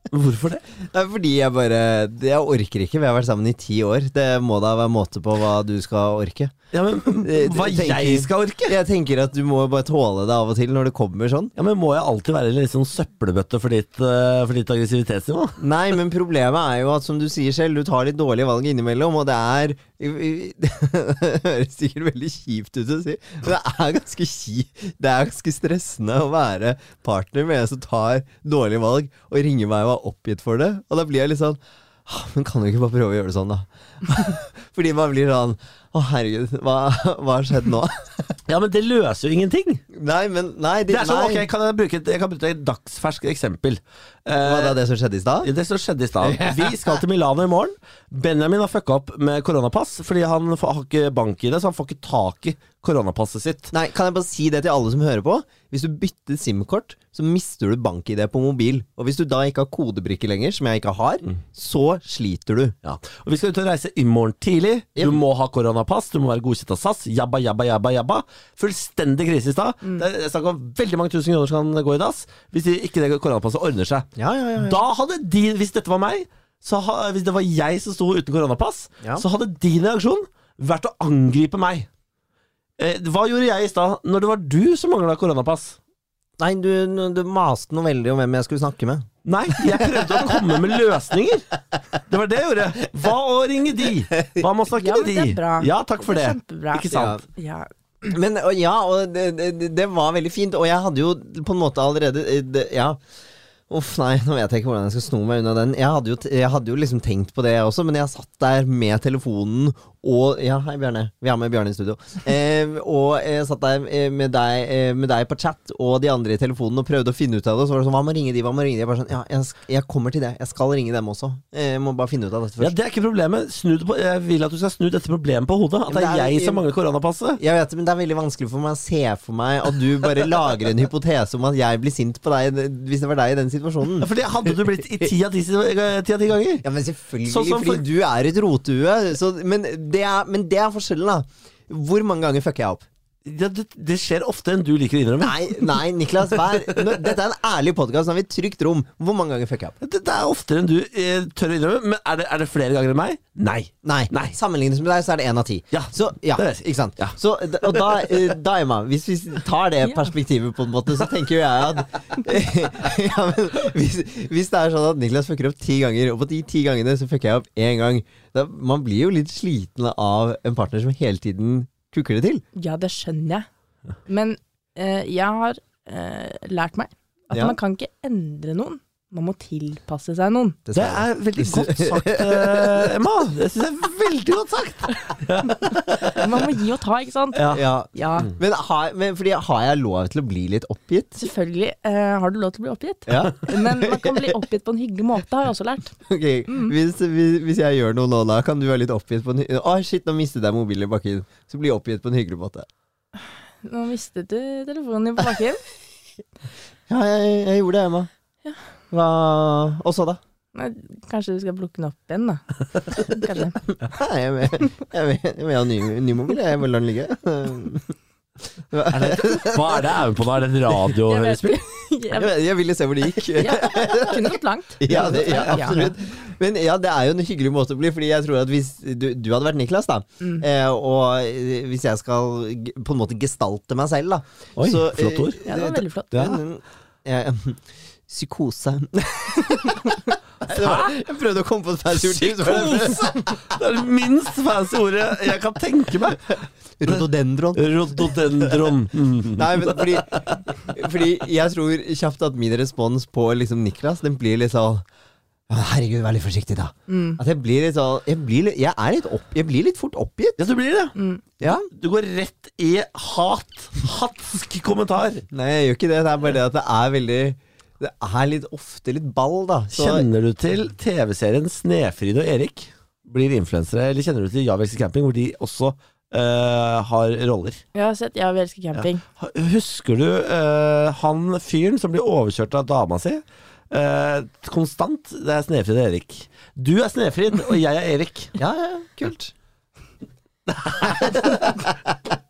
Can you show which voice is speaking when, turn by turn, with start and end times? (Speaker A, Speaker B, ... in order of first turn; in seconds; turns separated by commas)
Speaker A: 0.1-0.6, Speaker B: 0.8-6.5, Speaker A: 6.7-8.8, Speaker B: 7.1-11.5, Speaker A: 11.6-15.6, Speaker B: 15.6-38.4, Speaker A: 38.5-39.8, Speaker B: 39.9-41.5, Speaker A: 40.9-44.8, Speaker B: 44.4-45.5, Speaker A: 45.4-53.7, Speaker B: 46.2-47.0, Speaker B: 53.7-62.8, Speaker A: 62.8-74.1, Speaker B: 74.2-74.8, Speaker A: 74.6-81.9, Speaker A: 82.8-85.8, Speaker B: 86.4-90.6, Speaker A: 89.2-91.5, Speaker A: 92.0-97.2, Speaker C: 94.7-97.7, Speaker B: 96.9-97.2, Speaker B: 98.0-103.0, Speaker B: 103.7-122.8, Speaker A: 122.6-127.4, Speaker B: 125.9-126.6, Speaker B: 127.4-134.1, Speaker A: 134.0-136.6, Speaker B: 136.6-142.8, Speaker A: 137.3-137.8, Speaker A: 143.2-145.8, Speaker B: 145.2-149.8, Speaker A: 146.5-147.0, Speaker A: 149.8-154.4, Speaker B: 153.8-172.4, Speaker A: 155.7-157.9, Speaker C: 172.6-173.5, Speaker C: 174.1-180.6, Speaker B: 177.3-177.6, Speaker B: 180.7-182.9, Speaker A: 180.8-186.3, Speaker C: 185.5-188.3, Speaker A: 187.3-187.6, Speaker B: 187.5-191.2, Speaker C: 191.2-196.0, Speaker B: 193.1-194.3, Speaker B: 196.1-202.7, Speaker C: 196.5-196.8, Speaker C: 203.6-205.6, Speaker B: 206.9-208.1, Speaker B: 208.9-210.2, Speaker C: 210.6-213.6, Speaker B: 213.8-217.9, Speaker B: 218.7-220.0, Speaker A: 218.9-221.6, Speaker C: 221.1-222.3, Speaker B: 222.1-243.4, Speaker C: 223.2-225.9, Speaker A: 234.6-235.4, Speaker C: 235.4-236.4, Speaker A: 240.5-241.0, Speaker A: 241.9-247.0, Speaker B: 246.8-248.7, Speaker A: 247.6-250.0, Speaker B: 249.3-254.8, Speaker B: 255.5-260.4, Speaker C: 256.9-257.2, Speaker A: 260.4-265.2, Speaker C: 261.0-261.2, Speaker B: 261.4-261.7, Speaker B: 265.3-270.1, Speaker A: 269.7-277.6, Speaker C: 277.7-279.0, Speaker A: 278.8-288.4, Speaker B: 288.4-289.3, Speaker A: 290.5-291.6, Speaker B: 290.8-291.6